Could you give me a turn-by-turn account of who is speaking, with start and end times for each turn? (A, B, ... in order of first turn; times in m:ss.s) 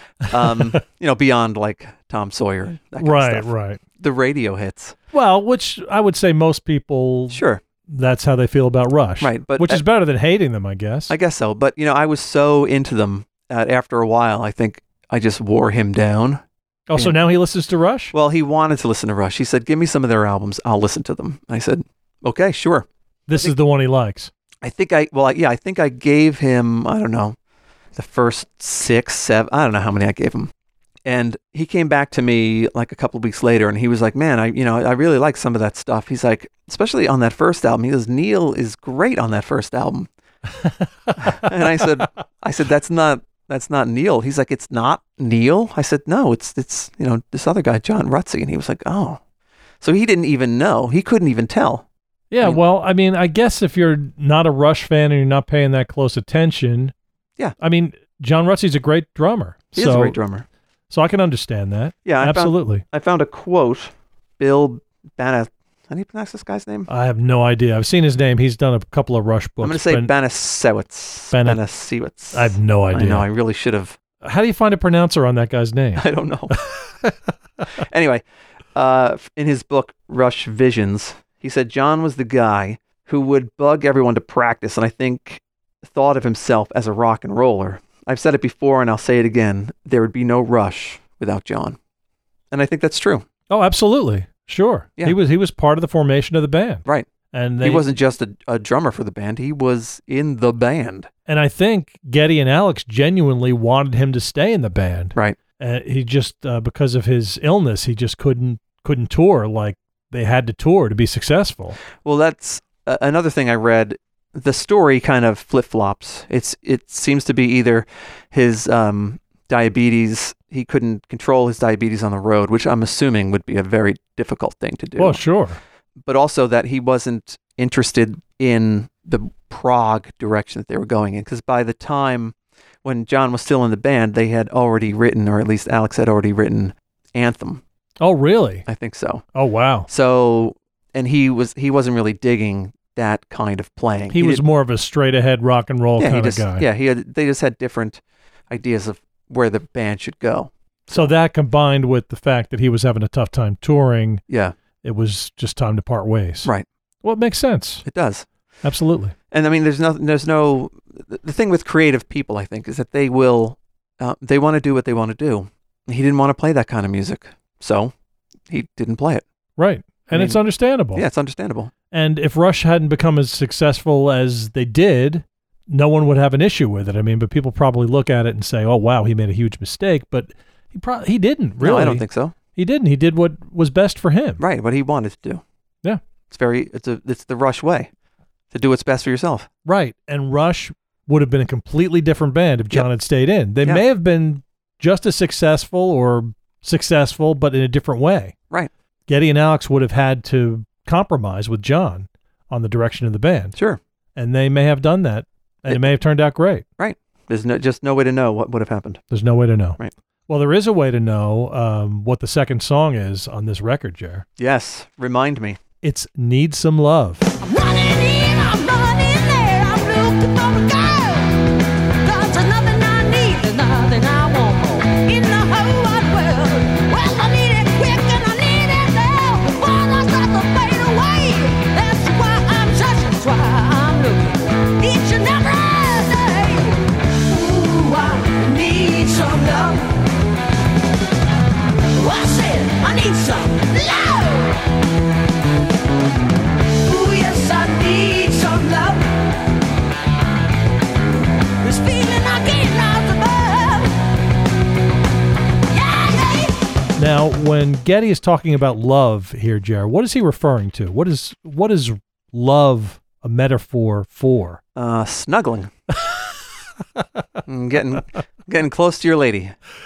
0:00.2-0:05.0 A
0:03.0-0:03.8 B
0:05.1-0:11.1 B
0:07.3-0:07.6 A
0:09.2-0:09.8 A
0:11.1-0:16.4 A
0:16.9-0:18.1 B
0:18.1-0:23.5 A
0:23.3-0:24.3 B
0:24.6-0:27.4 A
0:27.9-0:30.5 A
0:31.0-0:40.1 A
0:40.6-0:41.5 B
0:41.2-0:49.2 A
0:49.8-0:51.8 A
0:52.3-0:56.9 B
0:57.6-1:00.2 B
0:59.7-1:00.4 A
1:00.9-1:02.8 B
1:02.0-1:06.9 A
1:06.9-1:10.1 B
1:09.6-1:14.0 A
1:11.3-1:11.6 B
1:12.3-1:13.3 B
1:14.2-1:17.3 B
1:16.0-1:16.5 A
1:17.8-1:31.8 A
1:32.5-1:33.2 A
1:33.5-1:37.8 B
1:37.6-1:41.1 A
1:41.3-1:51.8 B
1:52.0-2:05.2 A
2:05.0-2:05.6 B
2:06.0-2:17.6 A
2:18.0-2:18.6 B
2:18.6-2:19.2 A
2:19.3-2:19.9 B
2:19.9-2:24.4 A
2:24.1-2:26.6 B
2:26.0-2:31.1 A
2:30.9-2:34.2 B
2:34.3-2:34.6 A
2:34.8-2:36.5 B
2:37.0-2:37.8 B
2:37.8-2:38.3 A
2:38.6-2:39.1 B
2:39.3-2:47.9 A
2:48.5-2:49.2 A
2:49.6-2:51.0 B
2:50.1-2:50.4 A
2:50.9-2:51.7 A
2:51.9-3:04.4 B
3:01.6-3:02.3 A
3:04.4-3:05.4 A
3:06.3-3:07.9 A
3:08.5-3:09.5 A
3:09.6-3:18.3 B
3:19.1-3:23.6 B
3:23.5-3:23.8 A
3:24.2-3:26.6 B
3:26.8-3:29.0 A
3:29.1-3:34.2 B
3:34.4-3:35.6 A
3:35.8-3:37.3 B
3:37.4-3:41.5 C
3:42.0-4:00.0 C
4:01.9-4:04.6 C
4:06.8-4:09.1 C
4:11.6-4:14.0 C
4:15.7-4:16.6 C
4:17.0-4:24.6 B
4:24.7-4:25.7 A
4:27.0-4:27.2 B
4:27.4-4:29.5 A